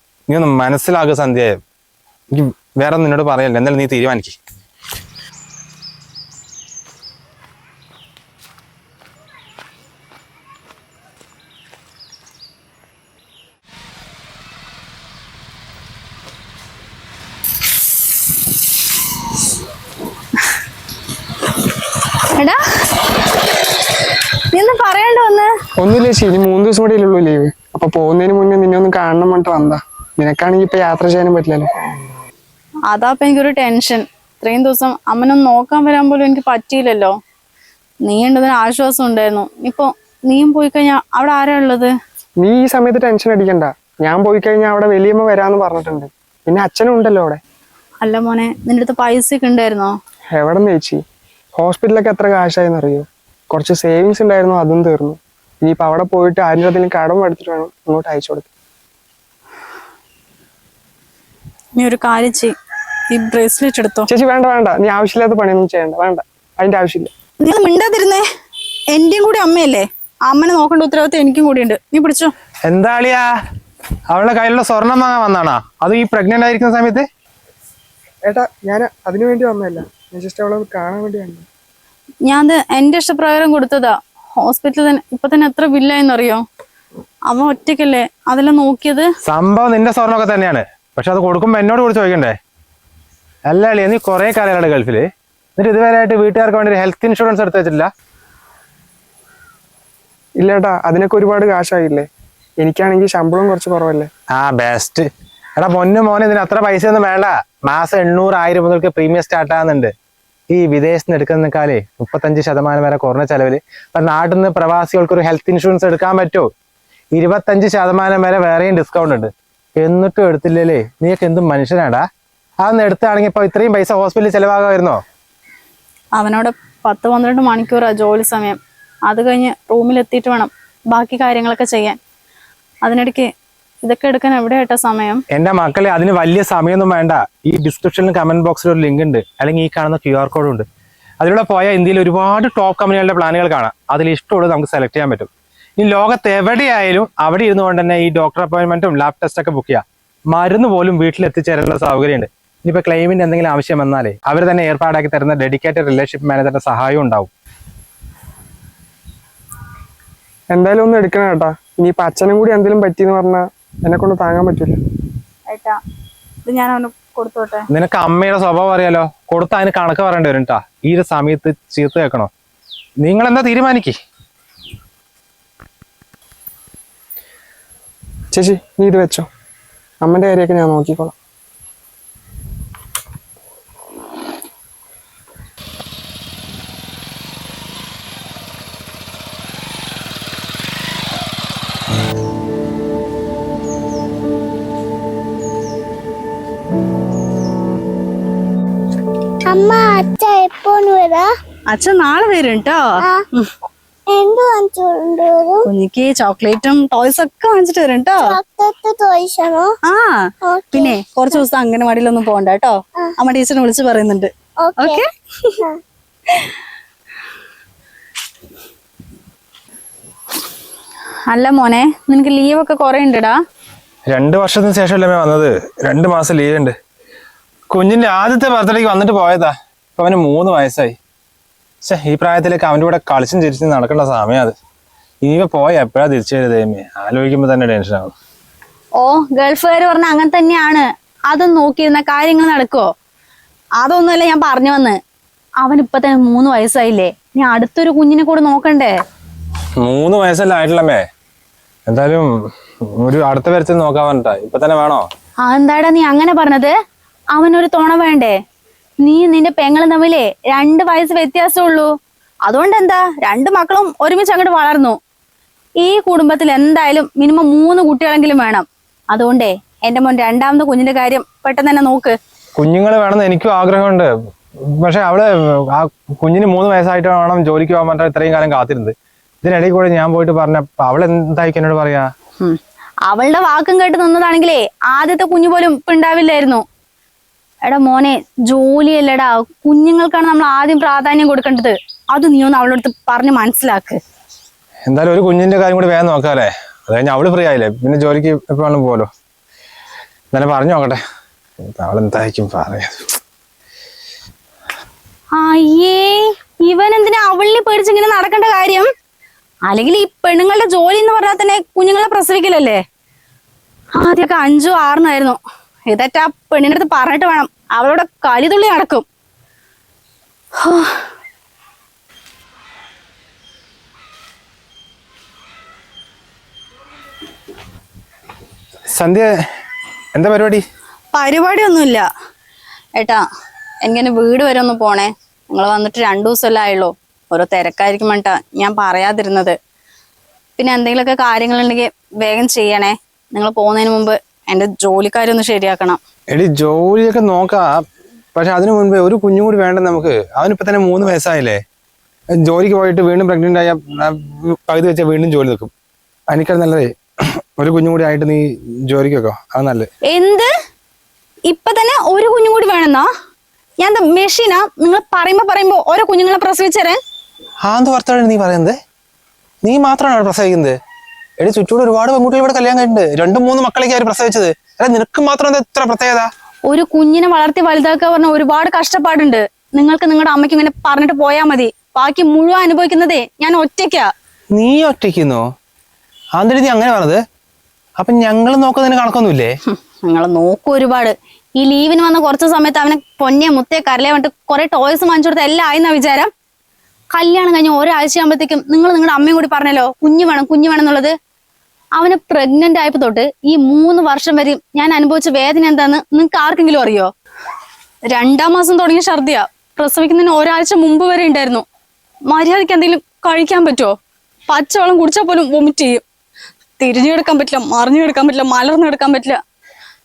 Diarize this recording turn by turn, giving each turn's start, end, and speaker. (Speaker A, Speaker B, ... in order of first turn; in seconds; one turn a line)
Speaker A: 0.3-1.6
Speaker A: 2.3-4.3
Speaker B: 22.3-23.0
Speaker B: 24.5-25.5
Speaker C: 25.8-31.9
Speaker B: 32.9-37.1
Speaker B: 38.0-41.9
Speaker C: 42.4-47.4
Speaker B: 48.0-49.9
Speaker C: 50.3-51.0
Speaker C: 51.5-58.5
Speaker B: 61.8-62.5
Speaker B: 63.1-64.1
Speaker C: 64.1-67.1
Speaker B: 67.4-68.2
Speaker B: 68.9-72.3
Speaker A: 72.7-73.2
Speaker A: 74.1-77.0
Speaker C: 78.2-81.5
Speaker B: 82.2-86.4
Speaker B: 87.3-89.1
Speaker A: 89.2-92.3
Speaker A: 93.5-97.9
Speaker C: 100.4-102.1
Speaker C: 102.6-104.1
Speaker A: 104.3-109.9
Speaker A: 110.5-116.5
Speaker A: 117.1-122.0
Speaker A: 122.6-125.0
Speaker B: 126.1-132.0
Speaker B: 132.8-133.3
Speaker B: 133.8-135.2
Speaker A: 135.3-140.6
Speaker A: 141.2-157.3
Speaker C: 160.5-164.8
Speaker B: 165.5-165.8
Speaker B: 166.4-167.7
Speaker A: 167.7-172.3
Speaker A: 173.0-173.9
Speaker C: 178.3-179.3
Speaker C: 180.0-181.1
Speaker D: 199.4-201.3
Speaker B: 201.7-203.5
Speaker D: 204.1-205.7
Speaker B: 205.7-208.3
Speaker D: 208.2-209.7
Speaker B: 209.9-215.7
Speaker D: 210.4-211.0
Speaker D: 214.6-215.0
Speaker B: 221.3-223.3
Speaker A: 224.1-226.7
Speaker A: 227.7-230.9
Speaker A: 231.8-234.5
Speaker A: 235.2-238.1
Speaker B: 238.9-242.9
Speaker B: 243.8-245.0
Speaker B: 245.6-248.9
Speaker A: 249.8-251.0
Speaker A: 251.9-252.3
Speaker A: 252.9-255.1
Speaker B: 255.4-256.7
Speaker B: 257.3-258.3
Speaker B: 259.0-261.9
Speaker B: 262.4-265.0
Speaker B: 265.8-272.1
Speaker A: 272.6-274.1
Speaker A: 274.6-282.1
Speaker B: 282.4-286.6
Speaker B: 287.6-294.0
Speaker A: 294.9-299.1
Speaker A: 300.3-301.0
Speaker A: 301.6-303.1
Speaker B: 305.4-308.9
Speaker B: 309.7-312.8
Speaker B: 313.9-319.0
Speaker B: 320.6-321.0
Speaker A: 328.9-329.3
Speaker A: 330.1-330.6
Speaker B: 331.1-332.1
Speaker B: 332.9-333.2
Speaker B: 333.8-339.6
Speaker B: 340.6-346.0
Speaker A: 346.3-347.7
Speaker A: 348.3-351.6
Speaker A: 352.4-355.7
Speaker A: 356.3-359.9
Speaker B: 360.0-360.5
Speaker B: 361.5-363.1
Speaker B: 363.8-367.0
Speaker A: 367.6-368.8
Speaker A: 369.6-370.8
Speaker A: 371.4-376.3
Speaker B: 376.7-384.1
Speaker A: 384.5-385.4
Speaker A: 386.4-387.2
Speaker A: 388.0-389.5
Speaker B: 389.7-396.3
Speaker B: 397.1-401.1
Speaker B: 402.0-407.1
Speaker B: 408.1-411.6
Speaker B: 412.3-413.9
Speaker B: 414.5-416.0
Speaker B: 416.8-419.4